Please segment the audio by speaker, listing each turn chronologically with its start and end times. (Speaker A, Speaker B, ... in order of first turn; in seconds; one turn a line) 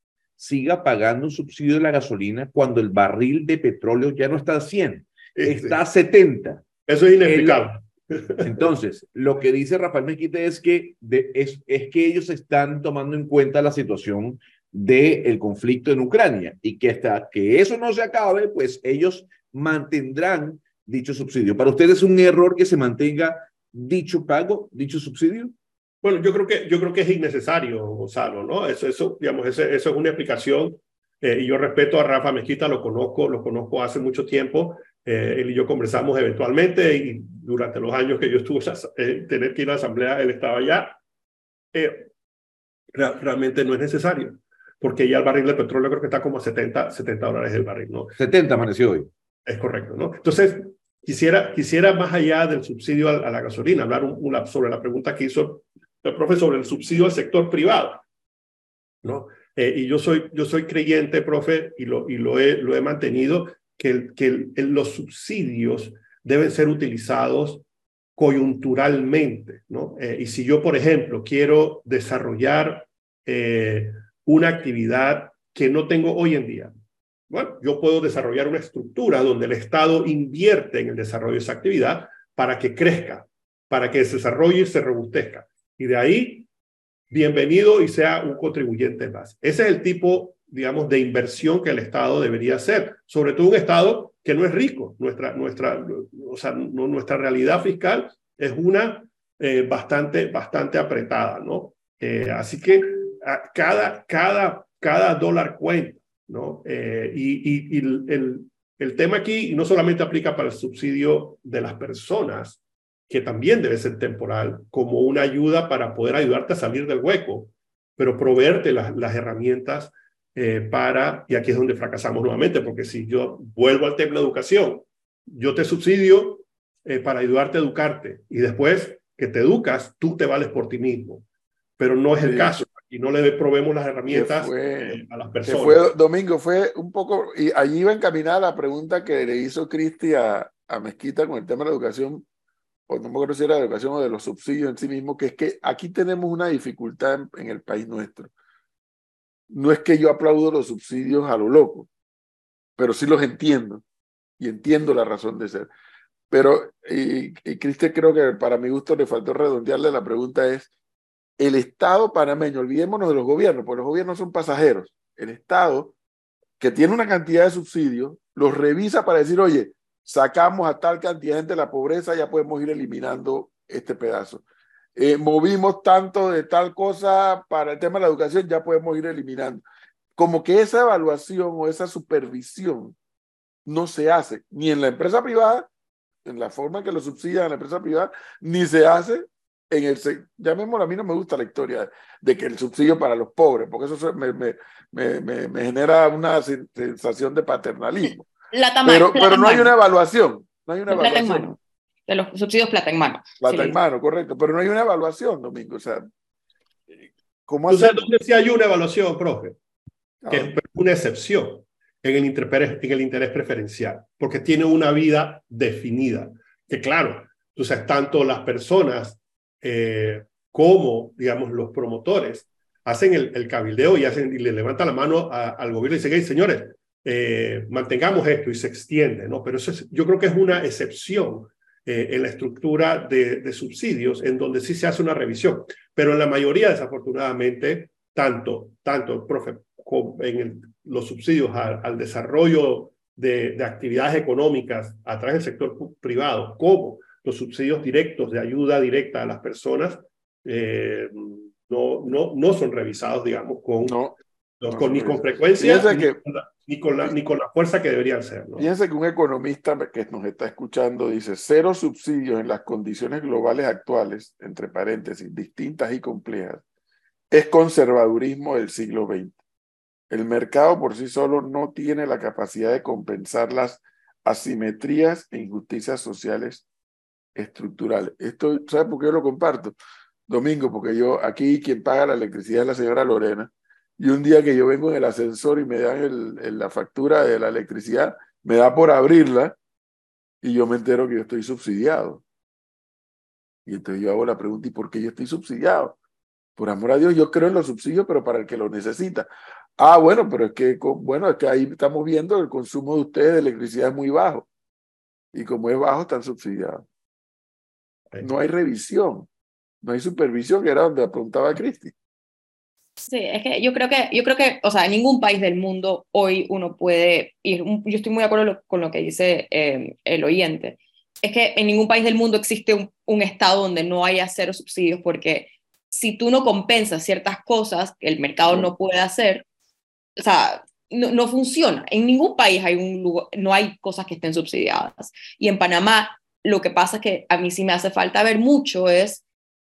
Speaker A: 0.4-6.6
Speaker B: 5.4-5.8
Speaker B: 6.9-8.6
Speaker A: 7.2-7.6
Speaker A: 8.4-25.5
Speaker B: 26.0-41.0
Speaker B: 41.7-42.1
Speaker B: 42.9-48.1
Speaker A: 48.2-49.1
Speaker B: 49.5-58.0
Speaker B: 59.0-67.6
Speaker B: 68.2-76.7
Speaker B: 77.3-86.5
Speaker B: 87.1-131.2
Speaker B: 131.8-135.9
Speaker C: 132.2-132.6
Speaker C: 134.1-142.2
Speaker C: 142.9-148.3
Speaker C: 149.5-151.9
Speaker C: 152.8-153.8
Speaker C: 154.4-155.7
Speaker C: 156.3-160.7
Speaker C: 161.4-165.9
Speaker C: 166.6-174.4
Speaker C: 174.9-179.6
Speaker C: 180.2-182.9
Speaker C: 183.7-185.7
Speaker C: 186.2-198.3
Speaker D: 198.5-199.7
Speaker C: 198.8-201.5
Speaker D: 200.9-203.8
Speaker C: 203.4-206.0
Speaker C: 207.5-208.1
Speaker B: 207.7-209.6
Speaker C: 210.2-210.5
Speaker B: 210.3-254.0
Speaker C: 253.8-254.2
Speaker B: 254.6-258.7
Speaker C: 254.7-256.2
Speaker C: 258.6-266.6
Speaker C: 267.3-269.4
Speaker C: 270.1-276.6
Speaker C: 277.4-279.8
Speaker C: 280.3-289.6
Speaker C: 290.4-292.2
Speaker C: 293.6-295.9
Speaker C: 296.6-304.5
Speaker C: 305.3-306.8
Speaker C: 308.2-309.3
Speaker C: 309.8-311.9
Speaker D: 313.0-329.4
Speaker D: 330.2-339.2